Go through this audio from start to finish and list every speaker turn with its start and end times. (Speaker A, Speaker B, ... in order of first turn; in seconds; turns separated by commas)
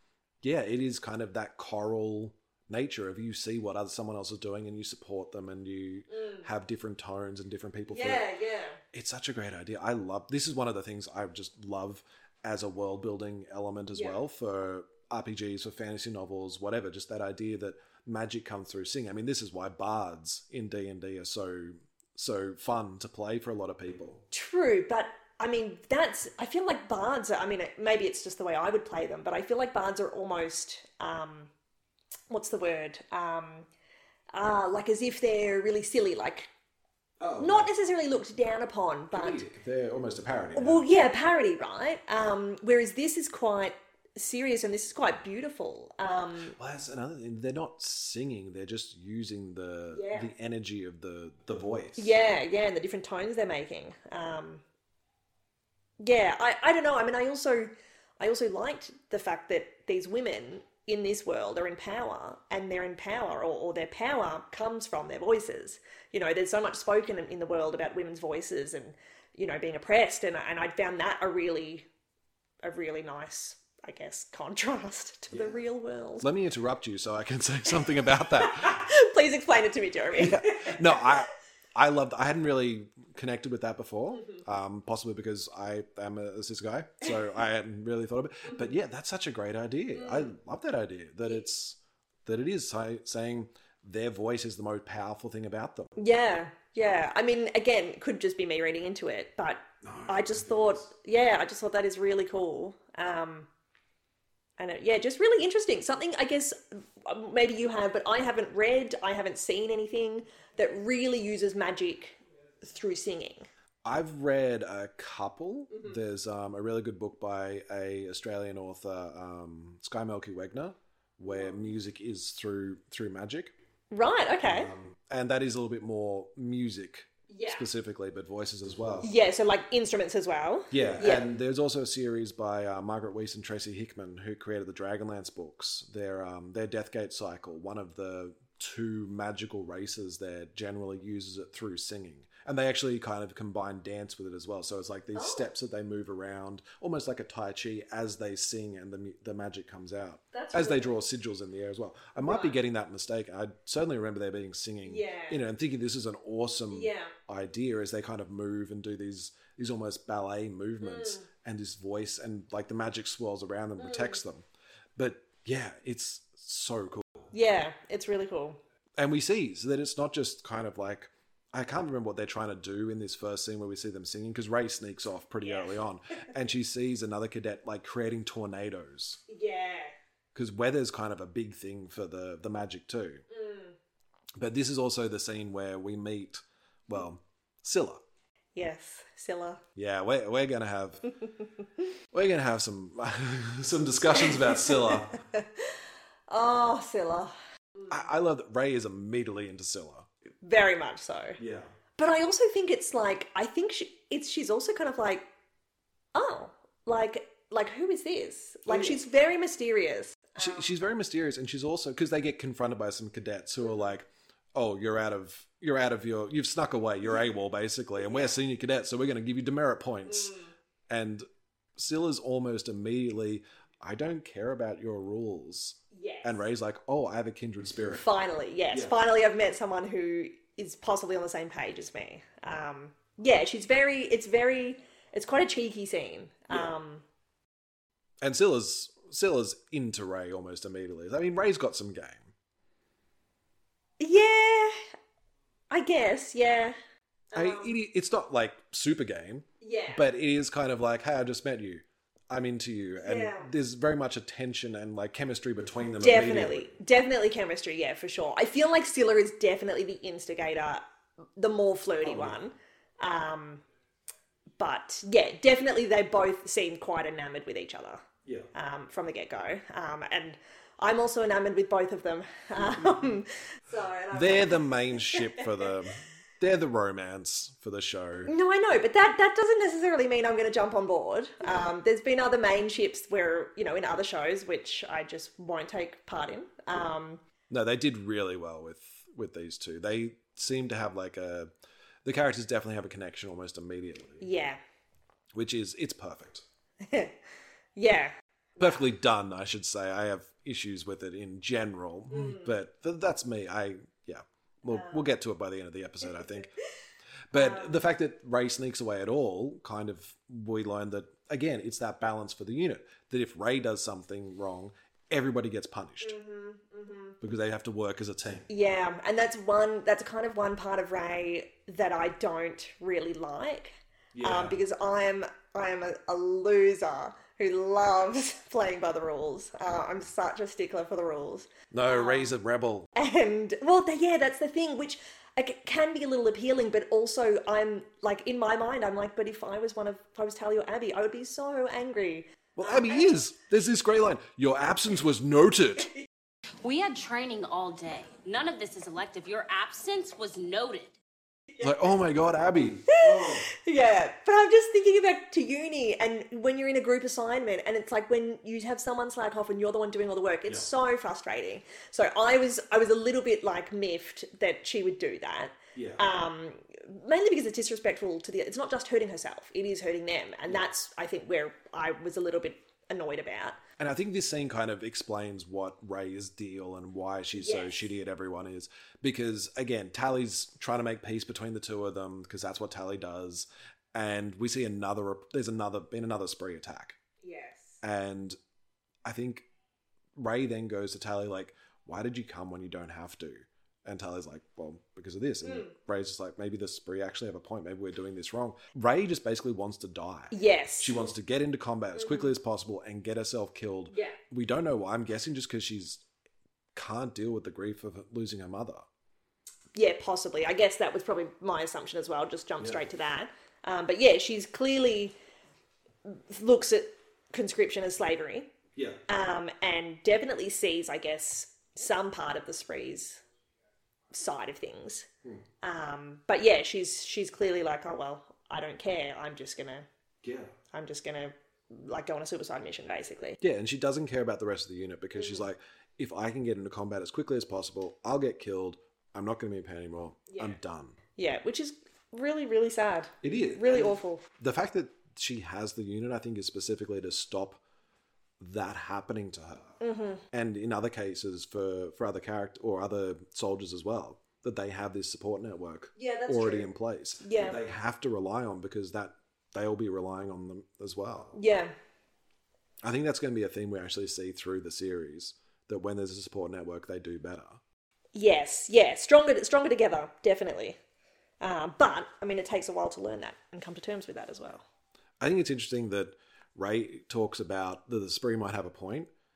Speaker A: 0.4-8.2, Speaker B: 6.1-6.5, Speaker B: 7.9-8.8, Speaker A: 8.9-24.2, Speaker B: 24.3-31.5, Speaker B: 32.3-33.7, Speaker B: 34.3-36.5, Speaker A: 37.2-37.7, Speaker B: 37.4-39.5, Speaker A: 39.1-40.9, Speaker B: 40.5-46.5, Speaker A: 46.6-52.1, Speaker B: 49.9-50.3, Speaker B: 52.0-54.6, Speaker B: 56.0-71.9, Speaker B: 72.6-76.2, Speaker A: 76.2-78.9, Speaker B: 77.9-81.2, Speaker A: 80.1-96.0, Speaker B: 84.1-84.4, Speaker B: 88.5-88.7, Speaker B: 89.9-90.3, Speaker B: 96.0-103.5, Speaker A: 99.8-100.8, Speaker B: 104.6-113.5, Speaker A: 113.8-123.5, Speaker B: 123.9-124.7, Speaker A: 124.4-129.1, Speaker B: 127.3-127.7, Speaker B: 129.0-131.2, Speaker A: 130.7-164.4, Speaker B: 145.1-145.5, Speaker B: 150.3-150.9, Speaker B: 152.2-152.6, Speaker B: 154.8-155.4, Speaker B: 156.7-157.1, Speaker B: 160.8-161.3, Speaker B: 163.8-164.2, Speaker A: 165.0-167.2, Speaker B: 167.3-168.6, Speaker A: 169.0-179.2, Speaker B: 175.4-175.8, Speaker B: 179.3-179.9, Speaker A: 180.3-183.2, Speaker B: 183.3-183.7, Speaker A: 184.4-188.0, Speaker B: 188.5-189.6, Speaker A: 189.8-191.1, Speaker A: 192.1-195.2, Speaker B: 194.2-195.7, Speaker B: 196.3-197.3, Speaker A: 197.9-200.1, Speaker B: 200.4-201.4, Speaker A: 201.4-201.7, Speaker B: 202.0-205.2, Speaker B: 206.1-210.7, Speaker A: 208.7-209.0, Speaker A: 210.3-220.3, Speaker B: 213.6-213.9, Speaker B: 218.0-218.3, Speaker B: 220.1-220.5, Speaker A: 220.9-221.2, Speaker A: 221.8-228.0, Speaker B: 225.9-226.4, Speaker B: 227.9-237.0, Speaker A: 238.2-242.3, Speaker B: 244.0-244.8, Speaker B: 245.7-246.8, Speaker B: 247.3-247.7, Speaker A: 247.3-256.7, Speaker B: 249.6-250.0, Speaker B: 253.0-253.5, Speaker B: 256.0-260.8, Speaker B: 261.4-263.6, Speaker A: 262.0-262.4, Speaker B: 264.6-275.4, Speaker A: 274.1-278.3, Speaker B: 278.2-287.2, Speaker A: 287.5-291.5, Speaker A: 292.0-294.2, Speaker B: 294.2-294.6, Speaker A: 295.3-296.4, Speaker B: 296.8-297.1, Speaker B: 297.8-298.9, Speaker A: 298.6-306.5, Speaker B: 302.1-302.5, Speaker B: 304.7-305.1, Speaker B: 306.0-306.5, Speaker A: 307.3-316.1, Speaker B: 307.3-307.8, Speaker B: 316.0-317.2, Speaker A: 317.2-318.5, Speaker B: 318.5-332.3, Speaker A: 324.1-324.6, Speaker A: 331.7-332.9, Speaker B: 332.9-343.0, Speaker A: 342.6-345.9, Speaker C: 346.6-350.9, Speaker A: 351.6-353.5, Speaker B: 352.9-373.6, Speaker A: 365.7-366.0, Speaker A: 373.8-387.0, Speaker B: 377.4-377.9, Speaker B: 387.2-387.8, Speaker A: 387.8-388.4, Speaker A: 389.0-389.4, Speaker A: 390.1-406.0, Speaker B: 395.4-395.7, Speaker B: 400.3-400.9, Speaker B: 401.9-402.3, Speaker B: 403.9-404.2, Speaker A: 406.7-408.8, Speaker B: 409.7-415.1, Speaker B: 416.0-418.5, Speaker A: 418.7-419.0, Speaker B: 419.1-423.2, Speaker B: 424.1-425.1, Speaker B: 425.6-429.9, Speaker A: 430.2-430.5, Speaker B: 430.7-433.4, Speaker A: 433.4-441.0, Speaker B: 435.2-435.4, Speaker B: 440.3-440.6, Speaker B: 441.2-444.3, Speaker A: 443.2-447.6, Speaker A: 448.4-449.8, Speaker B: 449.8-450.2, Speaker A: 450.3-461.3, Speaker B: 455.9-456.7, Speaker B: 457.2-457.6, Speaker B: 461.3-461.7, Speaker A: 462.8-467.6, Speaker B: 468.1-470.8, Speaker B: 471.4-474.6, Speaker A: 475.2-479.1